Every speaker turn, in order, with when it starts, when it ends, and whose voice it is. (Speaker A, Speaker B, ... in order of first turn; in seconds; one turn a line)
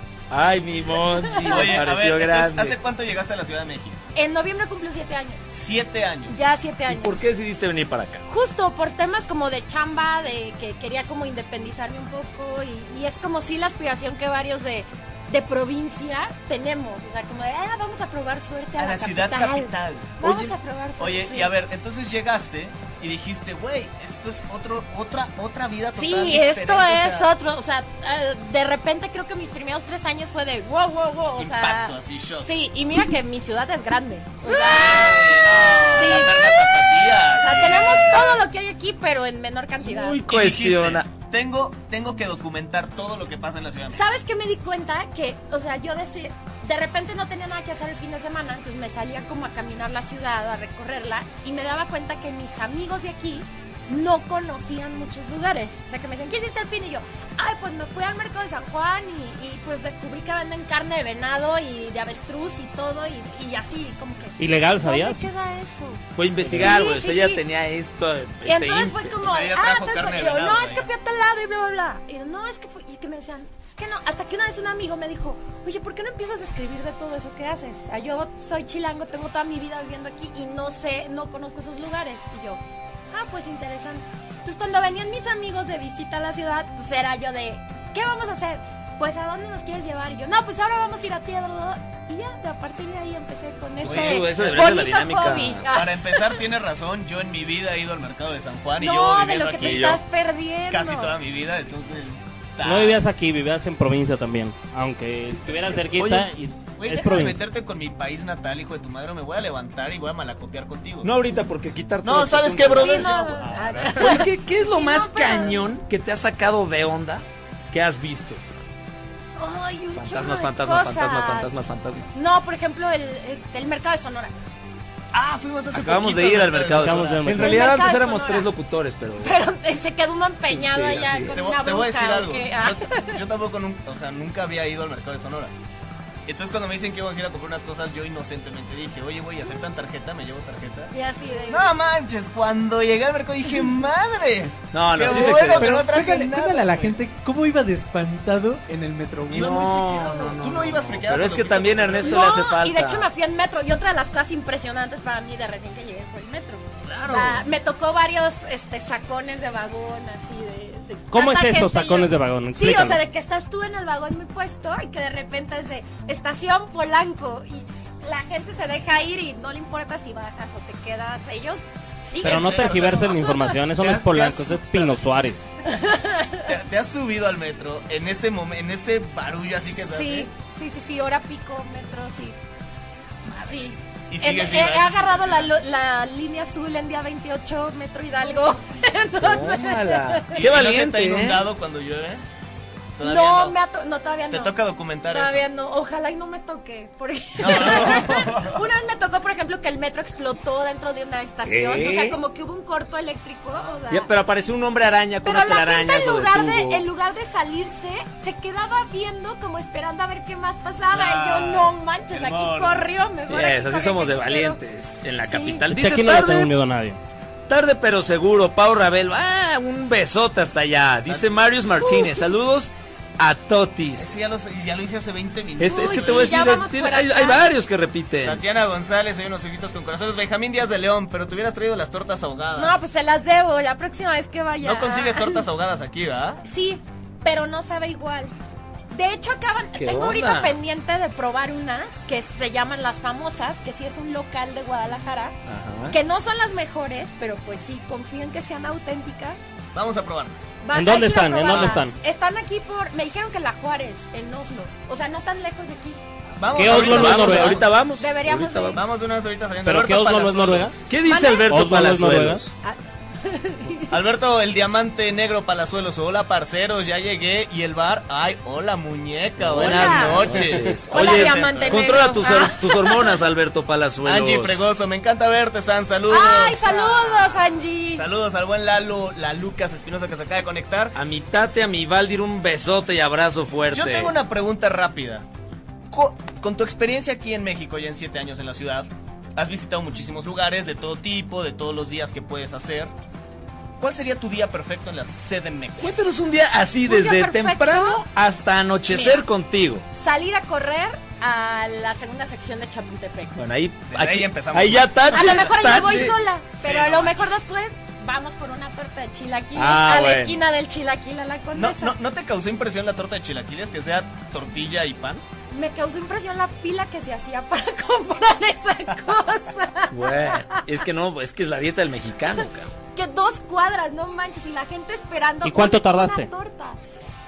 Speaker A: 0.3-2.8
Speaker B: 1.3-1.6
Speaker C: 1.4-4.0
Speaker B: 4.2-5.5
Speaker C: 5.5-6.4
Speaker B: 6.3-7.3
Speaker A: 6.9-8.3
Speaker B: 8.3-21.5
Speaker C: 18.8-20.2
Speaker A: 20.2-20.5
Speaker C: 21.0-27.3
Speaker B: 25.9-40.2
Speaker C: 31.4-32.5
Speaker C: 34.4-38.4
Speaker A: 39.8-41.1
Speaker C: 40.3-44.1
Speaker B: 43.9-67.4
Speaker D: 64.4-65.3
Speaker A: 66.2-69.2
Speaker B: 68.5-96.4
Speaker C: 69.2-70.9
Speaker C: 93.8-94.7
Speaker A: 93.8-95.7
Speaker C: 95.7-100.0
Speaker B: 98.8-101.2
Speaker A: 99.6-100.0
Speaker C: 100.7-103.0
Speaker D: 102.6-107.4
Speaker A: 106.0-106.2
Speaker C: 106.8-111.1
Speaker A: 111.0-113.1
Speaker C: 112.0-114.2
Speaker B: 112.8-115.8
Speaker A: 114.0-118.4
Speaker B: 119.4-121.5
Speaker A: 119.9-122.1
Speaker B: 122.1-124.3
Speaker C: 125.1-127.3
Speaker A: 125.7-129.4
Speaker D: 126.7-127.7
Speaker B: 127.3-128.5
Speaker B: 129.2-133.2
Speaker A: 130.4-131.4
Speaker C: 131.3-135.5
Speaker C: 136.3-140.9
Speaker B: 140.9-141.7
Speaker C: 141.5-147.0
Speaker A: 144.7-145.8
Speaker E: 145.1-149.7
Speaker C: 149.3-152.2
Speaker A: 149.3-153.1
Speaker B: 152.0-173.6
Speaker C: 156.8-157.5
Speaker D: 161.1-163.0
Speaker C: 172.2-173.2
Speaker D: 172.2-175.5
Speaker C: 173.8-175.1
Speaker B: 175.7-176.5
Speaker C: 176.4-180.3
Speaker B: 179.8-182.4
Speaker C: 183.3-185.6
Speaker B: 183.4-190.4
Speaker A: 189.2-191.5
Speaker C: 190.3-192.2
Speaker C: 193.0-193.6
Speaker B: 193.0-194.6
Speaker C: 194.3-195.4
Speaker B: 195.1-204.1
Speaker C: 197.4-198.6
Speaker A: 201.4-202.2
Speaker A: 203.9-206.9
Speaker B: 205.2-214.6
Speaker C: 210.9-212.9
Speaker A: 213.2-216.5
Speaker B: 215.2-215.7
Speaker D: 215.7-217.0
Speaker A: 217.5-224.1
Speaker C: 221.1-221.3
Speaker B: 221.8-222.2
Speaker C: 224.0-226.4
Speaker A: 225.6-228.4
Speaker B: 225.7-227.5
Speaker C: 228.2-232.8
Speaker B: 232.6-235.4
Speaker C: 234.6-236.4
Speaker B: 236.4-238.3
Speaker B: 238.9-245.4
Speaker A: 239.8-240.6
Speaker A: 245.5-246.0
Speaker B: 245.9-249.4
Speaker C: 249.7-250.5
Speaker B: 250.6-256.0
Speaker D: 250.7-251.9
Speaker C: 256.4-257.8
Speaker D: 256.6-257.6
Speaker A: 256.6-258.9
Speaker B: 257.9-258.9
Speaker C: 258.7-260.9
Speaker D: 259.6-260.7
Speaker A: 260.9-262.5
Speaker B: 261.1-261.6
Speaker D: 261.5-262.4
Speaker B: 262.6-263.9
Speaker C: 263.9-272.2
Speaker A: 269.4-274.6
Speaker B: 269.5-273.2
Speaker C: 274.0-280.9
Speaker B: 276.1-278.1
Speaker A: 280.9-284.1
Speaker C: 283.7-285.3
Speaker C: 285.9-292.9
Speaker C: 293.8-296.1
Speaker A: 295.8-299.9
Speaker B: 296.9-298.0
Speaker B: 298.9-299.2
Speaker B: 299.9-303.4
Speaker A: 303.4-306.2
Speaker C: 303.9-306.1
Speaker B: 305.1-312.0
Speaker C: 306.6-307.4
Speaker A: 309.6-310.4
Speaker C: 311.5-315.2
Speaker B: 315.5-320.6
Speaker A: 319.9-322.7
Speaker B: 322.9-326.8
Speaker D: 325.4-326.3